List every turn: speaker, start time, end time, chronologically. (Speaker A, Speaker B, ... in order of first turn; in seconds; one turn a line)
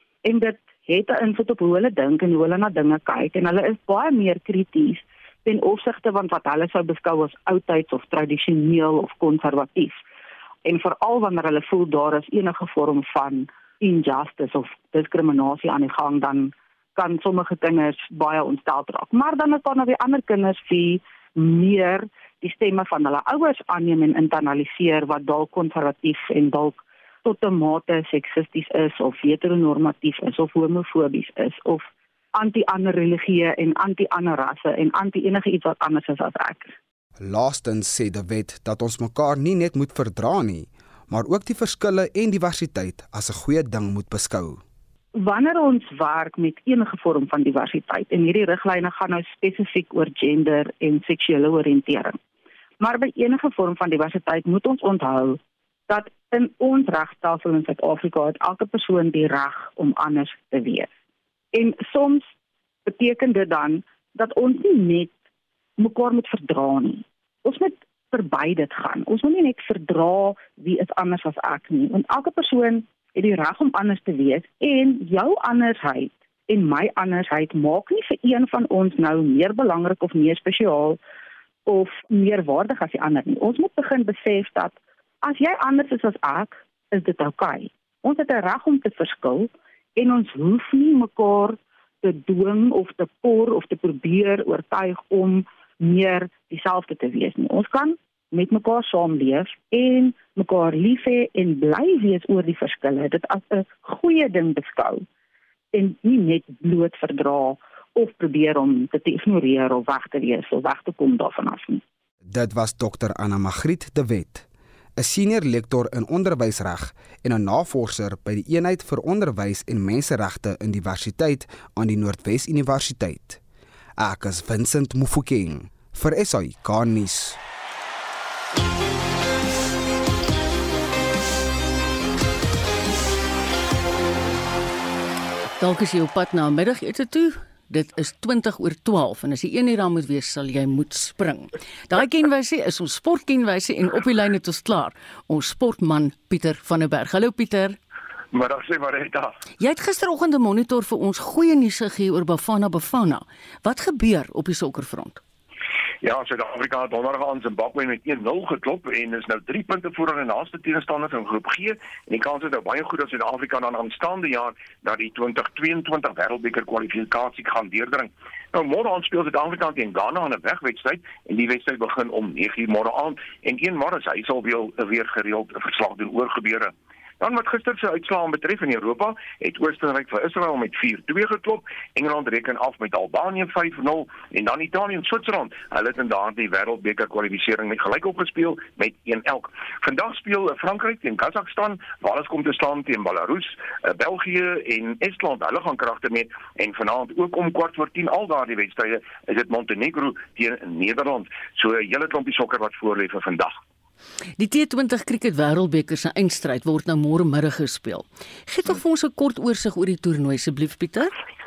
Speaker A: 0.2-10.0
Speaker A: 10.6-36.7
Speaker B: 37.2-44.6
Speaker A: 45.1-52.2
Speaker A: 52.8-60.9
Speaker A: 61.5-62.3
Speaker A: 62.8-65.1
Speaker A: 65.8-81.0
Speaker A: 81.7-105.0
Speaker A: 105.7-111.8
Speaker B: 112.3-114.4
Speaker B: 115.0-123.4
Speaker B: 124.0-127.4
Speaker C: 135.6-147.8
Speaker D: 148.3-149.3
Speaker C: 149.6-155.2
Speaker D: 156.0-203.5
Speaker C: 204.4-211.1